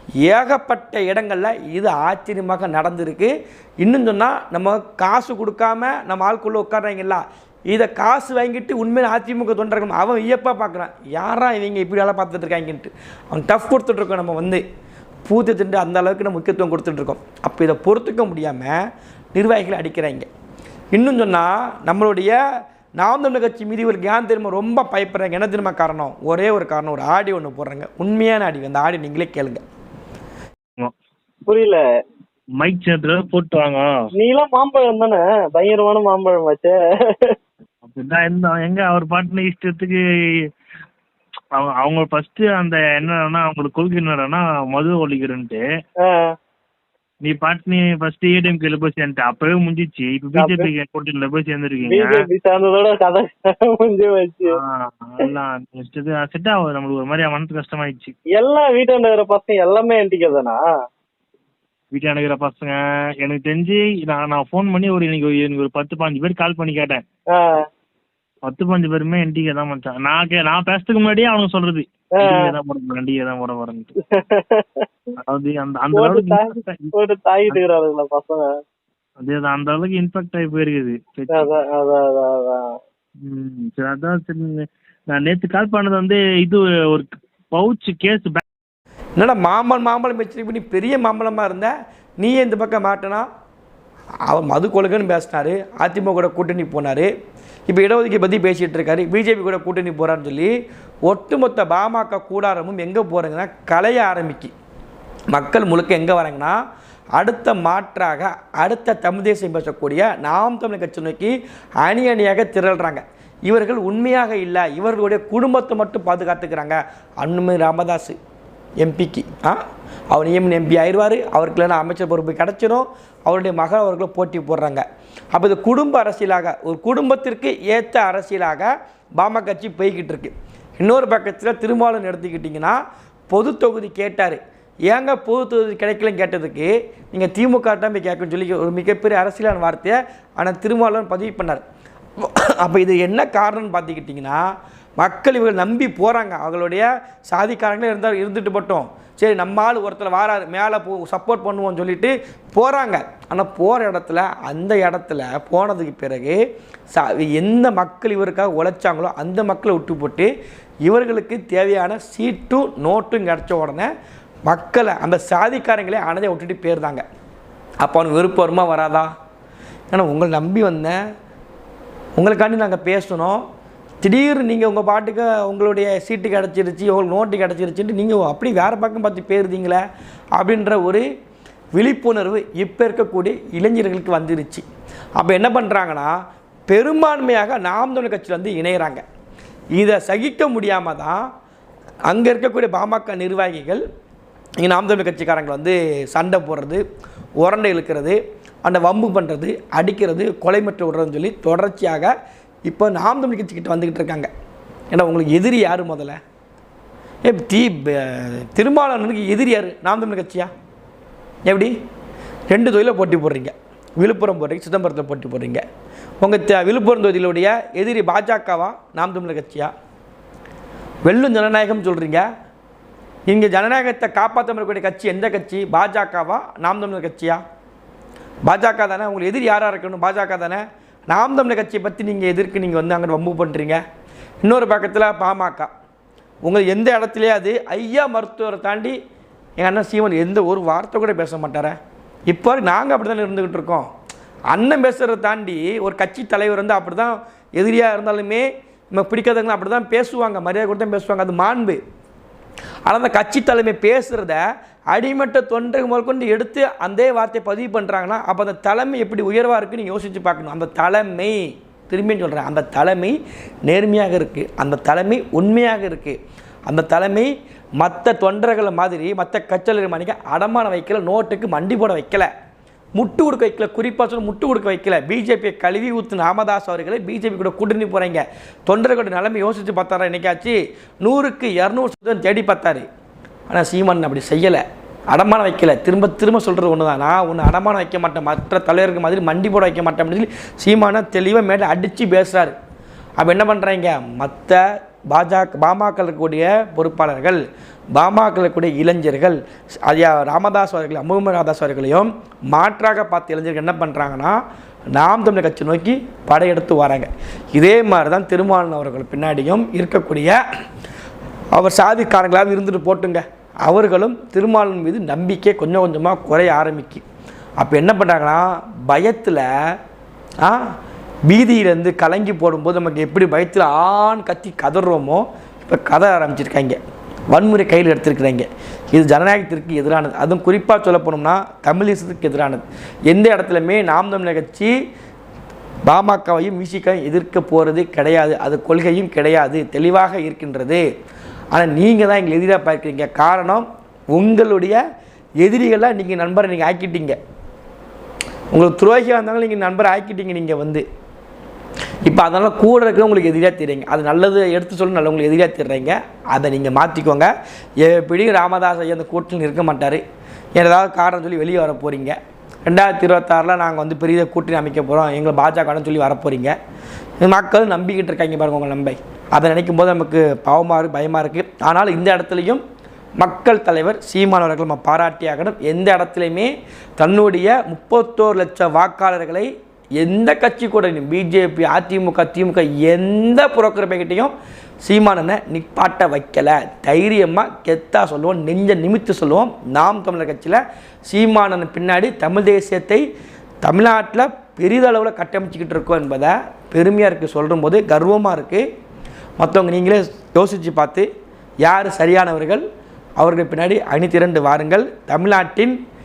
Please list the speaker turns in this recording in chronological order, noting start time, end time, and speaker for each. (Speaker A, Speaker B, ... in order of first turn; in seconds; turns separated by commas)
Speaker A: 0.2-14.6, Speaker A: 15.3-18.8, Speaker A: 19.4-20.3, Speaker A: 20.9-22.4, Speaker A: 23.0-29.6, Speaker B: 31.5-31.8, Speaker C: 32.6-33.9, Speaker B: 34.2-37.4, Speaker C: 37.8-40.0, Speaker C: 41.6-45.6, Speaker B: 46.0-46.3, Speaker C: 47.2-52.2, Speaker B: 50.4-50.7, Speaker B: 51.9-54.6, Speaker C: 54.5-58.1, Speaker B: 58.4-60.6, Speaker C: 61.9-67.0, Speaker B: 67.3-67.7, Speaker C: 68.5-73.9, Speaker B: 72.2-72.5, Speaker B: 74.0-75.2, Speaker C: 75.2-76.9, Speaker B: 75.9-78.5, Speaker C: 79.2-81.6, Speaker B: 81.3-82.7, Speaker C: 83.2-88.4, Speaker A: 89.2-93.3, Speaker A: 94.3-97.1, Speaker A: 97.7-100.5, Speaker A: 101.1-104.5, Speaker A: 105.3-106.6, Speaker A: 107.2-118.2, Speaker A: 118.8-119.6, Speaker A: 120.1-141.6, Speaker A: 142.2-144.5, Speaker A: 145.0-156.4, Speaker A: 156.9-160.3, Speaker A: 160.9-163.9, Speaker A: 164.5-167.0, Speaker A: 167.8-169.1, Speaker A: 169.9-171.0, Speaker A: 172.2-173.4, Speaker A: 174.0-179.8, Speaker A: 180.4-181.1, Speaker A: 181.8-184.7, Speaker A: 185.2-186.2, Speaker A: 186.7-189.0, Speaker A: 189.8-191.2, Speaker A: 192.1-193.8, Speaker A: 194.6-196.8, Speaker A: 197.4-202.1, Speaker A: 202.7-204.3, Speaker A: 204.9-206.2, Speaker A: 207.2-210.5, Speaker A: 211.5-211.7, Speaker A: 212.5-215.6, Speaker A: 216.2-219.7, Speaker A: 221.1-222.3, Speaker A: 223.3-227.4, Speaker A: 228.5-233.8, Speaker A: 234.4-235.7, Speaker A: 236.5-239.0, Speaker A: 239.6-241.8, Speaker A: 242.3-243.9, Speaker A: 244.5-251.8, Speaker A: 252.9-272.3, Speaker A: 273.0-282.9, Speaker A: 283.5-292.6, Speaker A: 293.2-297.4, Speaker A: 298.0-304.4, Speaker A: 304.9-310.4, Speaker A: 311.6-317.0, Speaker A: 317.6-319.5, Speaker A: 321.3-326.8, Speaker A: 327.3-334.7, Speaker A: 335.9-340.8, Speaker A: 341.5-344.8, Speaker A: 345.4-347.2, Speaker A: 348.5-350.8, Speaker A: 352.1-360.0, Speaker A: 360.6-366.6, Speaker A: 367.2-372.6, Speaker A: 373.2-384.3, Speaker A: 384.9-393.0, Speaker A: 393.6-398.7, Speaker A: 399.4-401.1, Speaker A: 401.6-402.6, Speaker A: 403.2-405.8